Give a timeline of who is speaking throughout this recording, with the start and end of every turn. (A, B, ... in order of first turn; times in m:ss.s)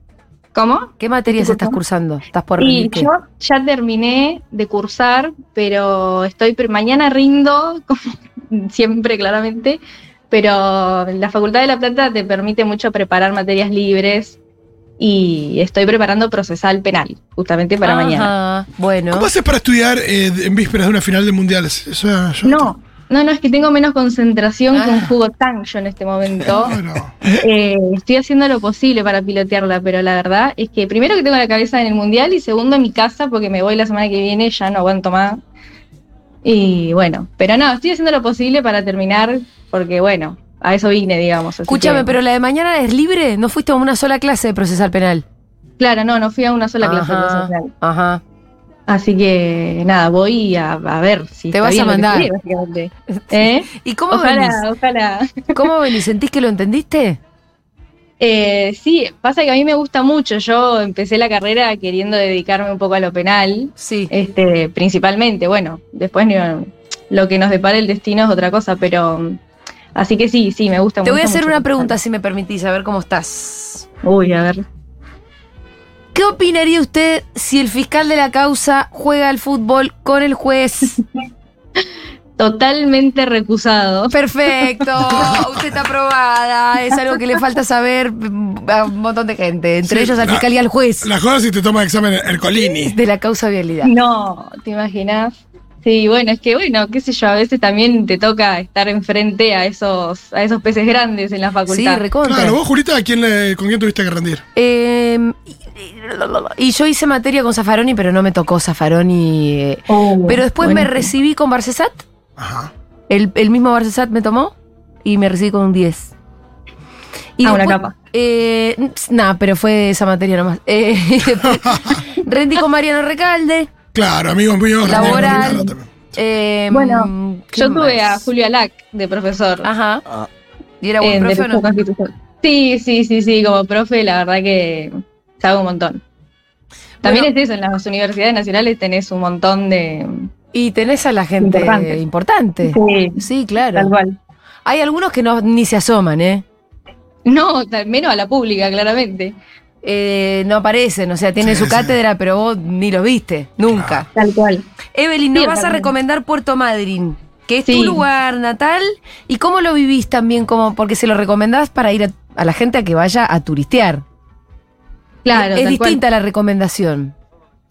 0:00.6-0:01.8 A
0:01.0-0:03.1 B
0:02.6-0:14.4 A
0:15.0-0:18.3 A
0:17.8-0:19.3 B
0:19.1-0:22.7 C
0:22.4-0:26.8 A
0:24.7-0:25.1 B
0:26.4-0:27.4 C
0:27.3-0:35.4 A
0:36.4-0:42.1 A
0:41.7-0:45.2 B
0:45.8-0:47.7 A
0:46.8-0:48.2 B
0:48.9-0:55.7 A
0:51.5-0:52.3 B
0:53.1-0:54.6 B
0:55.5-0:57.2 B
0:58.2-1:09.4 A
1:03.8-1:04.1 B
1:10.0-1:11.9 A
1:11.0-1:13.9 B
1:14.0-1:14.6 A
1:16.1-1:21.0 B
1:22.4-1:24.1 A
1:24.1-1:31.1 B
1:29.9-1:30.5 C
1:31.0-1:33.0 C
1:32.8-1:33.9 B
1:33.8-1:42.1 A
1:41.7-1:42.6 B
1:42.2-1:44.4 C
1:44.6-1:52.0 B
1:49.9-1:51.1 A
1:52.4-1:52.7 C
1:53.1-1:56.1 B
1:57.4-2:03.7 B
1:57.4-1:58.0 A
2:01.4-2:02.0 C
2:03.9-2:05.9 C
2:04.8-2:08.3 B
2:04.9-2:05.7 A
2:06.7-2:09.7 A
2:09.6-2:10.0 B
2:10.8-2:11.6 B
2:11.0-2:16.0 A
2:17.0-2:17.3 B
2:17.0-2:20.3 A
2:20.5-2:23.9 B
2:21.4-2:22.0 A
2:22.6-2:23.2 A
2:23.7-2:24.2 A
2:24.6-2:26.4 B
2:27.3-2:29.4 A
2:29.8-2:34.1 B
2:31.4-2:32.0 C
2:33.7-2:34.1 C
2:34.2-2:34.6 A
2:34.9-2:44.0 B
2:35.4-2:35.9 A
2:37.7-2:38.0 A
2:45.2-2:46.0 A
2:45.3-2:47.1 B